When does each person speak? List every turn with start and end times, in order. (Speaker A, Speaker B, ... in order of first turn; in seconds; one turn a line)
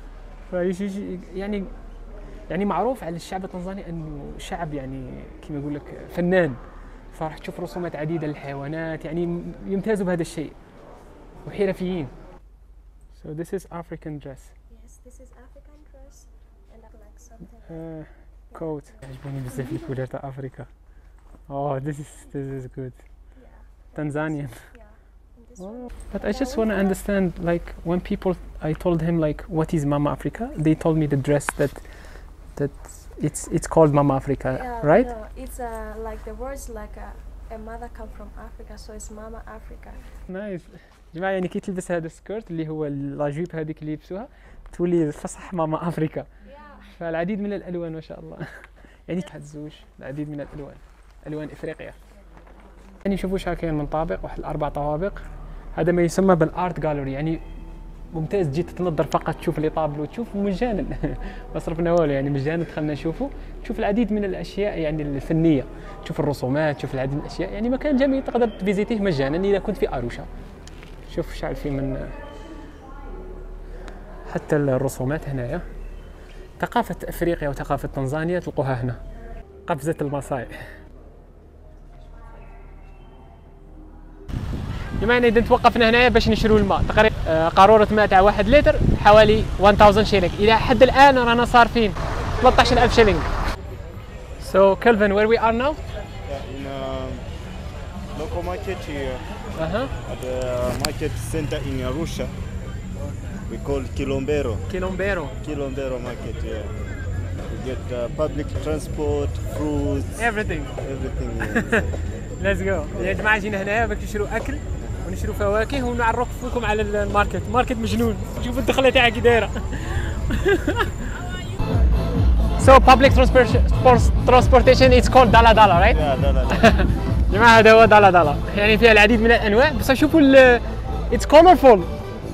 Speaker A: 0.5-1.7
Speaker A: 2.5-6.6
Speaker A: 7.1-10.5
Speaker A: 11.4-12.1
Speaker A: 13.2-14.5
Speaker B: 14.7-20.0
Speaker A: 17.7-20.7
Speaker A: 21.5-23.0
Speaker B: 23.3-27.0
Speaker A: 23.9-24.6
Speaker A: 25.6-31.8
Speaker A: 32.5-35.1
Speaker B: 34.5-40.0
Speaker A: 40.3-46.3
Speaker B: 46.4-47.0
Speaker A: 47.0-48.5
Speaker A: 49.1-52.0
Speaker A: 53.0-55.2
Speaker A: 55.7-57.4
Speaker A: 58.1-70.3
Speaker A: 71.1-72.1
Speaker A: 74.3-75.6
Speaker A: 76.6-79.0
Speaker A: 79.7-80.5
Speaker A: 85.0-93.3
Speaker A: 94.4-95.8
Speaker C: 96.3-97.2
Speaker C: 98.1-99.2
Speaker A: 99.6-99.9
Speaker C: 100.1-102.3
Speaker C: 103.5-104.6
Speaker A: 104.7-105.3
Speaker C: 105.4-106.7
Speaker C: 107.5-110.2
Speaker A: 110.2-110.7
Speaker C: 110.8-112.0
Speaker A: 111.5-111.8
Speaker A: 112.4-120.9
Speaker C: 112.9-113.2
Speaker A: 122.6-131.9
Speaker C: 125.9-126.7